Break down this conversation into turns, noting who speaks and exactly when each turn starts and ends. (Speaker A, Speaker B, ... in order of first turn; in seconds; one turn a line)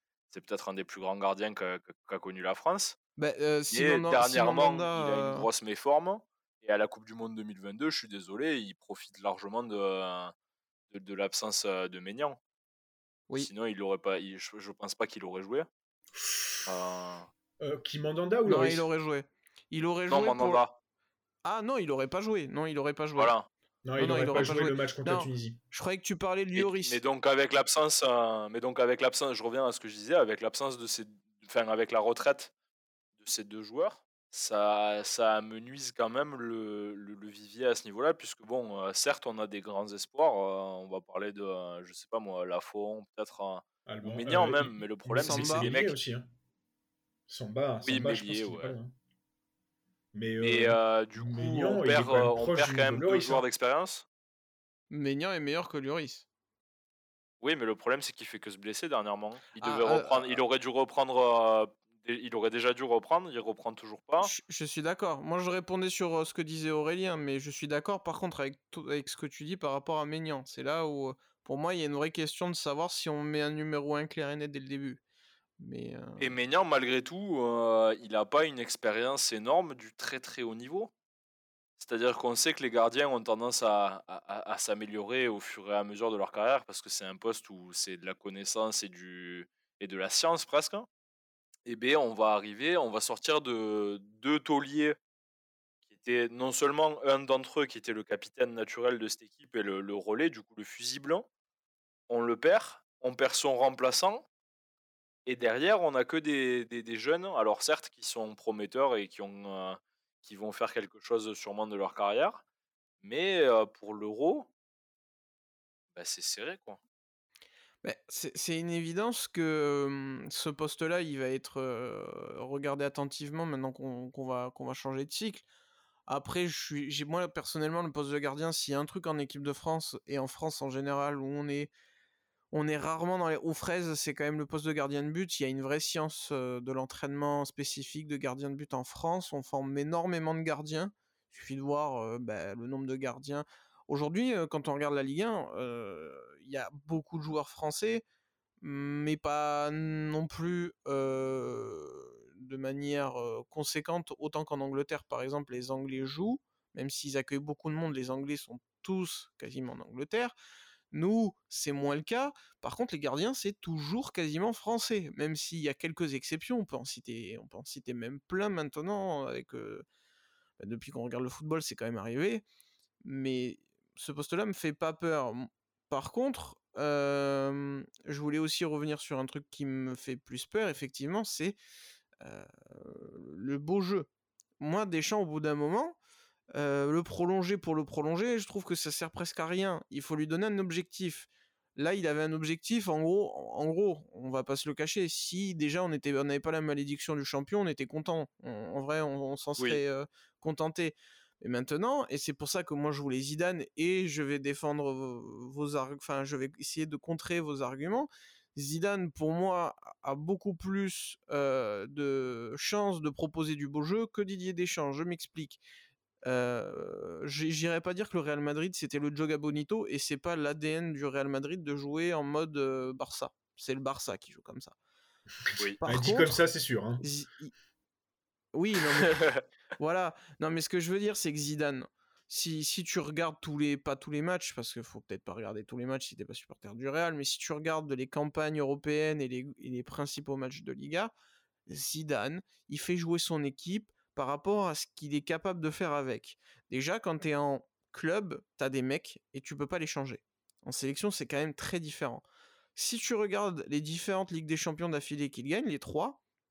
Speaker A: 0.3-3.0
Speaker B: 3.2-5.5
Speaker A: 3.7-10.3
Speaker A: 10.9-12.4
Speaker A: 13.3-15.7
Speaker C: 16.1-16.7
Speaker A: 16.6-17.3
Speaker C: 17.6-18.9
Speaker B: 18.4-20.6
Speaker A: 20.1-20.7
Speaker B: 21.4-23.3
Speaker A: 23.1-23.5
Speaker C: 23.9-25.6
Speaker B: 24.0-27.0
Speaker A: 26.6-32.5
Speaker A: 33.2-45.9
Speaker C: 43.9-46.3
Speaker B: 45.2-45.7
Speaker C: 47.3-48.9
Speaker A: 47.8-48.7
Speaker C: 50.1-53.5
Speaker A: 50.4-54.0
Speaker B: 54.9-56.2
Speaker A: 57.4-64.3
Speaker B: 59.6-60.4
Speaker B: 64.2-75.0
Speaker B: 75.6-76.3
Speaker A: 76.2-80.9
Speaker A: 81.8-90.9
Speaker A: 91.7-95.0
Speaker A: 95.9-101.3
Speaker A: 102.1-104.2
Speaker A: 105.2-112.4
Speaker A: 113.0-114.5
Speaker A: 115.9-116.8
Speaker B: 117.8-125.4
Speaker B: 126.1-131.7
Speaker B: 132.5-148.0
Speaker B: 148.6-160.3
Speaker B: 160.9-169.8
Speaker B: 170.6-172.4
Speaker B: 173.0-181.6
Speaker B: 182.2-184.1
Speaker B: 184.6-186.0
Speaker B: 186.5-215.6
Speaker B: 216.2-224.7
Speaker C: 225.4-227.0
Speaker B: 225.8-226.4
Speaker B: 227.0-227.5
Speaker B: 228.5-241.1
Speaker A: 229.0-229.4
Speaker B: 241.7-252.2
Speaker B: 252.7-256.2